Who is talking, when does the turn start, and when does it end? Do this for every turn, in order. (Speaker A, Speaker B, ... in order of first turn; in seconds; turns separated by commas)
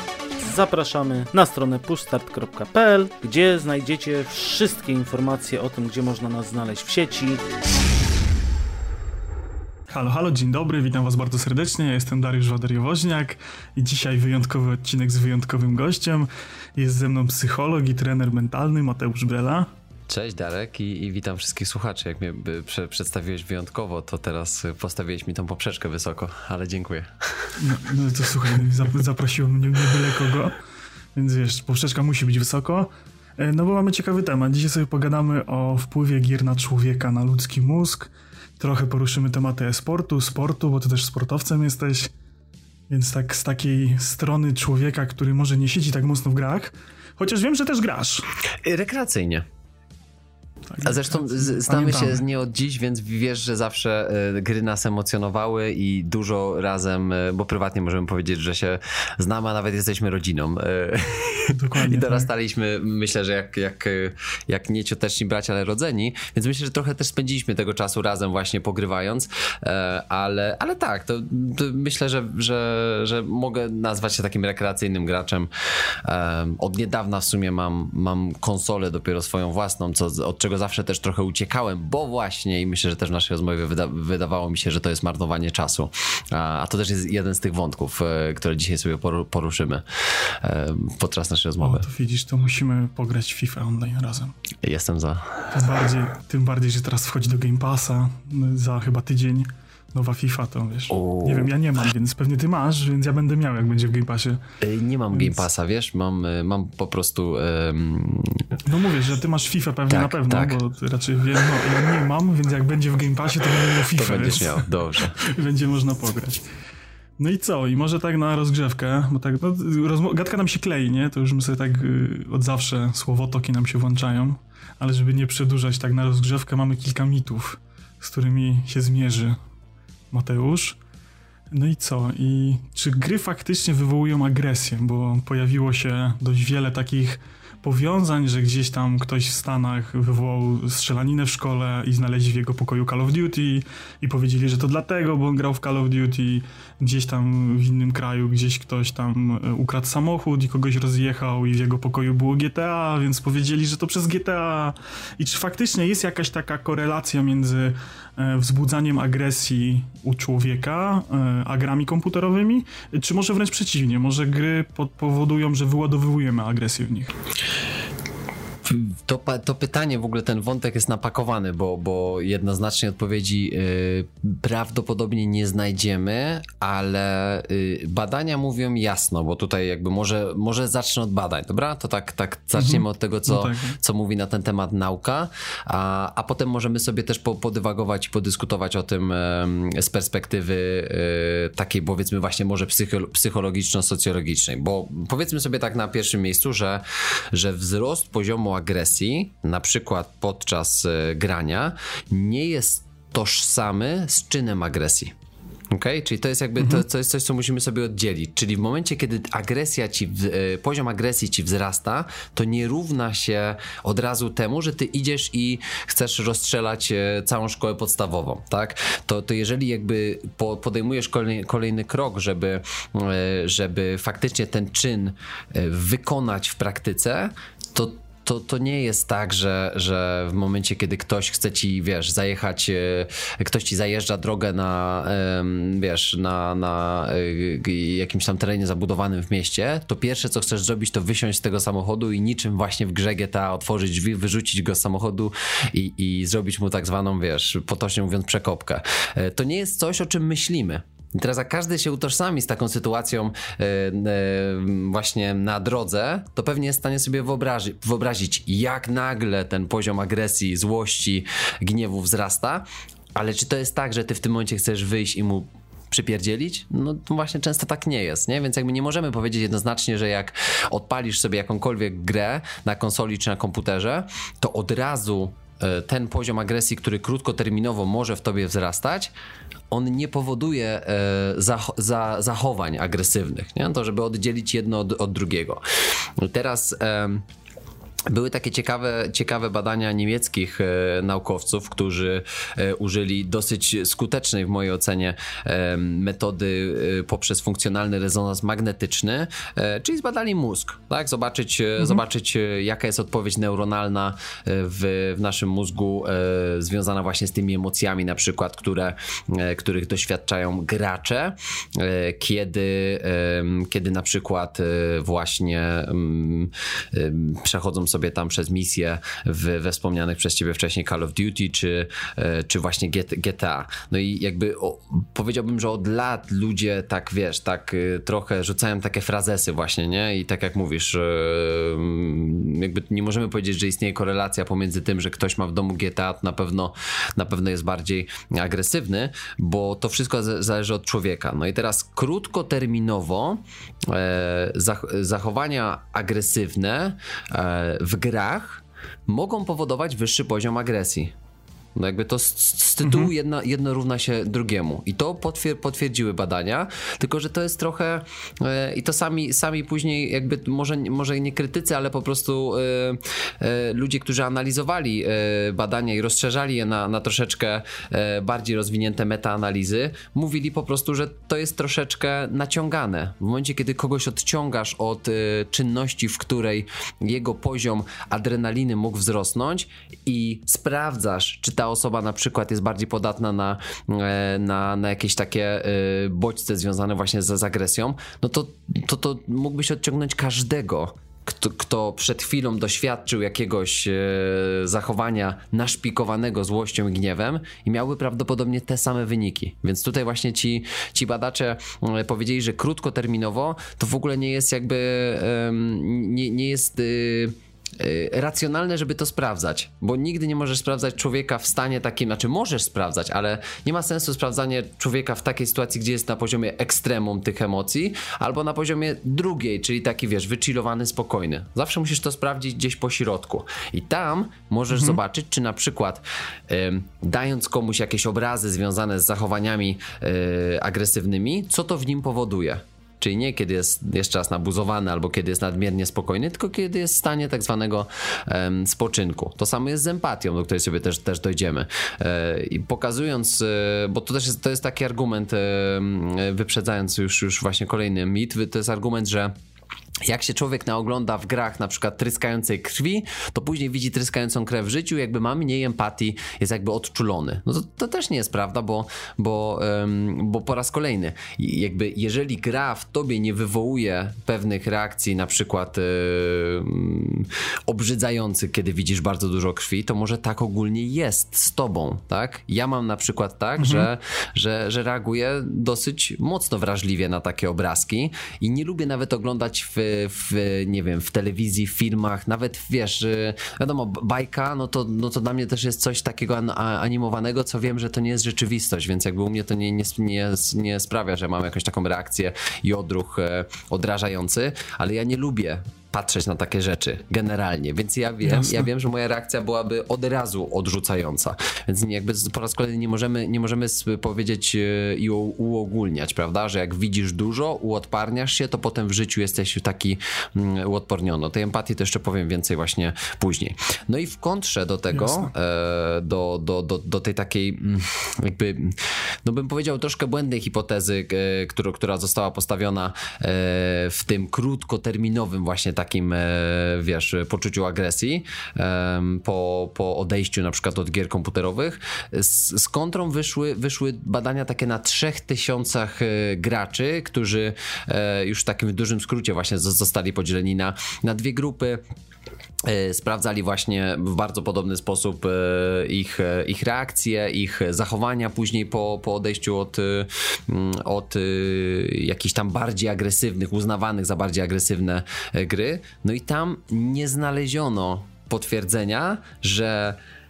Speaker A: 0.4-7.4, Speaker B: 9.9-19.7, Speaker C: 20.1-27.6, Speaker B: 27.6-30.6, Speaker B: 31.1-42.1, Speaker B: 42.9-48.3, Speaker C: 48.6-49.5, Speaker B: 50.7-52.2, Speaker C: 50.8-75.5, Speaker B: 61.5-62.3, Speaker C: 76.0-91.9, Speaker B: 91.6-94.3, Speaker C: 94.6-95.5, Speaker B: 95.5-104.4, Speaker C: 100.9-101.5, Speaker C: 104.6-108.5, Speaker B: 105.1-105.4, Speaker B: 108.7-114.7, Speaker C: 109.9-110.6, Speaker C: 113.9-115.2, Speaker B: 115.2-116.4, Speaker B: 117.2-129.4, Speaker B: 130.1-130.8, Speaker B: 131.5-167.2, Speaker C: 168.7-205.1, Speaker B: 182.6-183.8, Speaker C: 205.7-279.1, Speaker C: 279.7-285.6, Speaker C: 286.2-287.3, Speaker C: 288.1-351.1, Speaker C: 351.8-449.3, Speaker B: 352.8-353.1, Speaker B: 424.7-425.0, Speaker C: 450.1-541.8, Speaker B: 473.6-473.9, Speaker B: 498.2-498.7, Speaker B: 514.9-515.3, Speaker C: 542.7-560.0